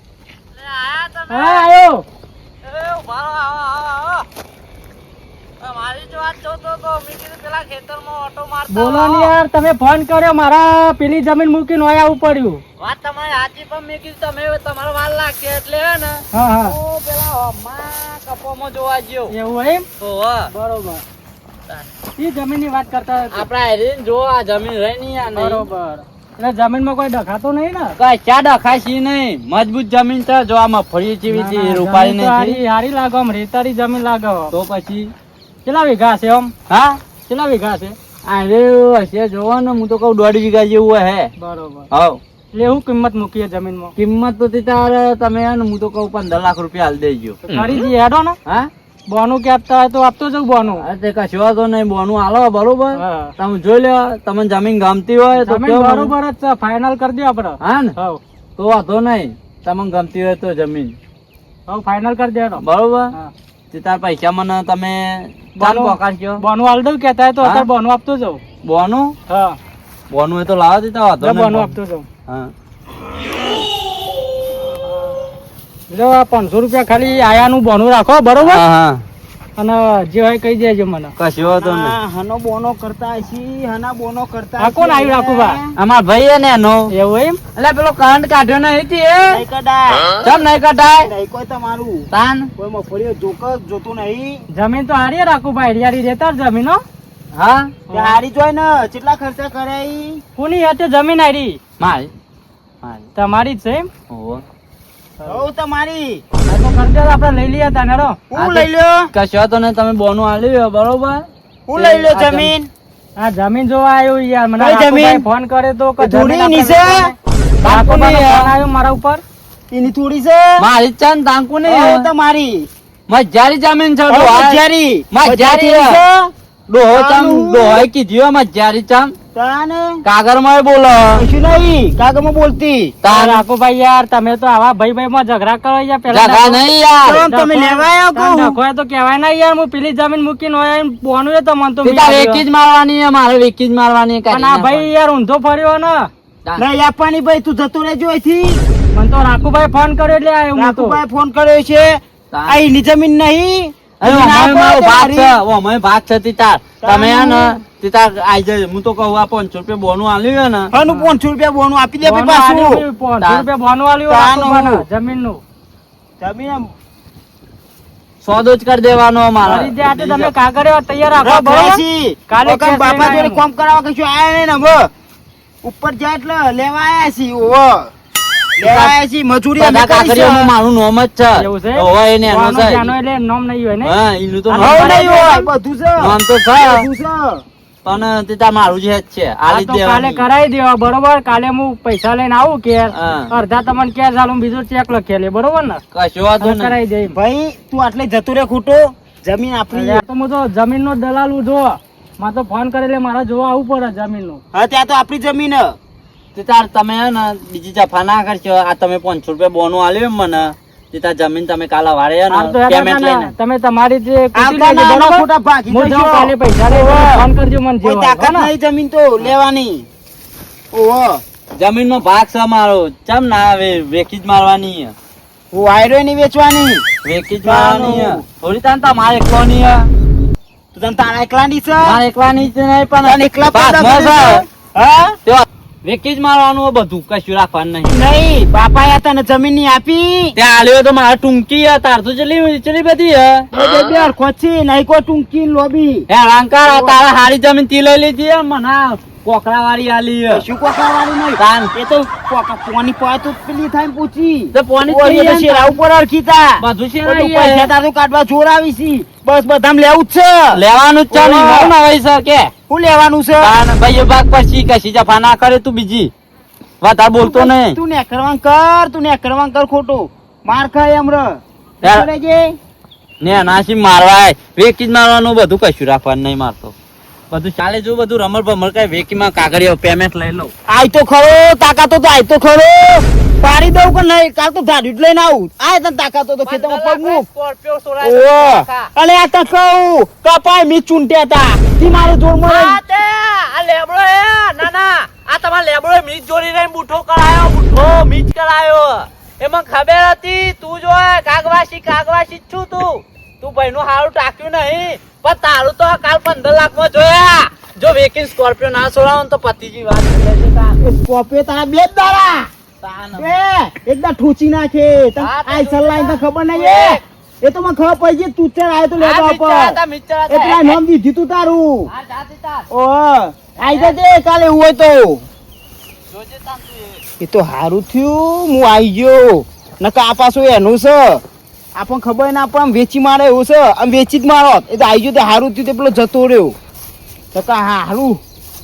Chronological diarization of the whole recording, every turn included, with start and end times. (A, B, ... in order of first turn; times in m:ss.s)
0:00.5-0:01.7 A
0:01.3-0:02.0 B
0:02.6-0:04.2 A
0:05.6-0:09.3 A
0:08.7-0:12.6 B
0:12.8-0:19.3 A
0:16.3-0:16.8 B
0:19.3-0:19.8 B
0:20.0-0:20.5 A
0:20.5-0:21.0 B
0:22.2-0:23.5 B
0:23.3-0:25.7 A
0:25.4-0:28.0 B
0:28.0-0:32.6 A
0:31.3-0:34.5 B
0:34.5-0:35.1 A
0:35.6-0:36.5 B
0:36.7-0:37.0 A
0:37.2-0:38.0 B
0:38.2-0:41.3 A
0:41.4-0:41.9 B
0:41.9-0:42.2 A
0:42.5-0:43.9 B
0:44.0-0:47.4 A
0:47.4-0:48.4 B
0:49.1-0:50.8 B
0:50.8-0:56.1 A
0:53.0-0:53.3 B
0:55.3-0:58.2 B
0:57.6-0:57.9 A
0:58.6-1:01.0 A
1:01.7-1:03.3 B
1:02.6-1:03.1 A
1:03.7-1:06.4 A
1:05.6-1:08.4 B
1:07.4-1:07.7 A
1:08.6-1:09.1 A
1:09.3-1:09.6 B
1:10.1-1:11.8 A
1:11.2-1:12.0 B
1:15.9-1:18.6 B
1:18.4-1:19.0 A
1:19.6-1:21.1 B
1:21.2-1:21.9 A
1:21.4-1:25.7 C
1:24.6-1:25.6 B
1:25.8-1:26.9 A
1:26.9-1:27.4 B
1:27.6-1:29.4 A
1:29.3-1:30.2 C
1:30.2-1:31.1 A
1:31.0-1:34.4 C
1:32.1-1:32.5 A
1:34.5-1:36.8 B
1:37.3-1:37.7 A
1:37.9-1:38.2 B
1:37.9-1:40.2 C
1:40.4-1:41.6 B
1:41.8-1:42.1 A
1:42.8-1:43.1 A
1:43.1-1:43.9 B
1:44.1-1:44.4 A
1:45.2-1:46.2 C
1:46.5-1:48.2 B
1:48.3-1:49.1 C
1:48.3-1:52.5 A
1:51.7-1:52.7 C
1:53.2-1:57.1 B
1:54.6-1:55.2 C
1:56.0-1:57.1 C
1:57.6-1:58.5 A
1:57.6-1:59.2 B
1:59.7-2:00.6 C
2:00.6-2:02.0 A
2:01.6-2:02.7 C
2:03.1-2:04.6 A
2:04.1-2:06.3 C
2:05.1-2:06.0 A
2:06.7-2:09.1 A
2:06.9-2:07.9 C
2:09.3-2:10.0 C
2:10.0-2:11.2 A
2:11.1-2:13.1 C
2:13.0-2:13.4 A
2:13.1-2:16.6 B
2:16.1-2:17.2 A
2:17.0-2:18.6 C
2:17.3-2:22.4 B
2:21.8-2:24.9 A
2:24.3-2:26.1 B
2:26.6-2:28.6 C
2:28.9-2:31.0 B
2:30.5-2:35.4 C
2:32.3-2:32.6 A
2:34.0-2:40.7 A
2:36.8-2:37.6 C
2:40.7-2:42.8 C
2:42.1-2:45.4 B
2:43.2-2:43.5 A
2:44.1-2:44.8 C
2:46.2-2:46.7 C
2:48.2-2:50.3 A
2:49.4-2:53.4 B
2:51.1-2:54.9 C
2:55.6-2:57.9 C
2:58.6-3:00.5 C
2:58.6-2:58.9 A
2:59.6-3:02.9 A
3:01.4-3:04.0 B
3:03.8-3:05.3 A
3:04.5-3:07.4 C
3:06.0-3:06.8 A
3:07.8-3:10.3 A
3:09.5-3:15.8 B
3:13.0-3:13.3 A
3:15.9-3:16.8 A
3:16.4-3:17.2 B
3:17.1-3:20.0 C
3:19.7-3:24.4 B
3:24.5-3:25.8 C
3:26.3-3:33.3 A
3:32.3-3:38.5 B
3:34.3-3:37.3 C
3:37.8-3:39.9 C
3:40.7-3:41.2 C
3:41.6-3:44.9 A
3:45.5-3:46.8 C
3:47.0-3:49.9 A
3:47.4-3:48.2 C
3:50.7-3:52.0 C
3:51.8-3:54.4 A
3:53.0-3:55.2 C
3:55.2-3:57.9 A
3:57.8-4:00.3 C
4:00.4-4:03.5 A
4:03.5-4:06.1 C
4:06.1-4:10.4 A
4:06.6-4:07.0 C
4:10.3-4:21.7 C
4:11.4-4:11.7 A
4:14.5-4:15.8 A
4:16.6-4:17.7 A
4:20.5-4:22.5 A
4:22.7-4:23.5 C
4:23.4-4:26.1 A
4:26.8-4:27.8 A
4:27.2-4:32.5 C
4:31.8-4:32.1 A
4:33.2-4:36.7 A
4:37.3-4:40.5 A
4:40.7-4:47.3 C
4:46.4-4:48.9 A
4:48.0-4:52.8 C
4:52.4-5:10.8 A
5:10.8-5:12.5 C
5:12.8-5:13.3 A
5:13.2-5:21.9 C
5:15.2-5:17.0 A
5:19.0-5:20.8 A
5:21.9-5:22.7 A
5:22.7-5:25.2 C
5:23.7-5:24.0 A
5:26.1-5:27.0 A
5:27.2-5:31.2 C
5:31.7-5:36.5 C
5:37.3-5:38.2 C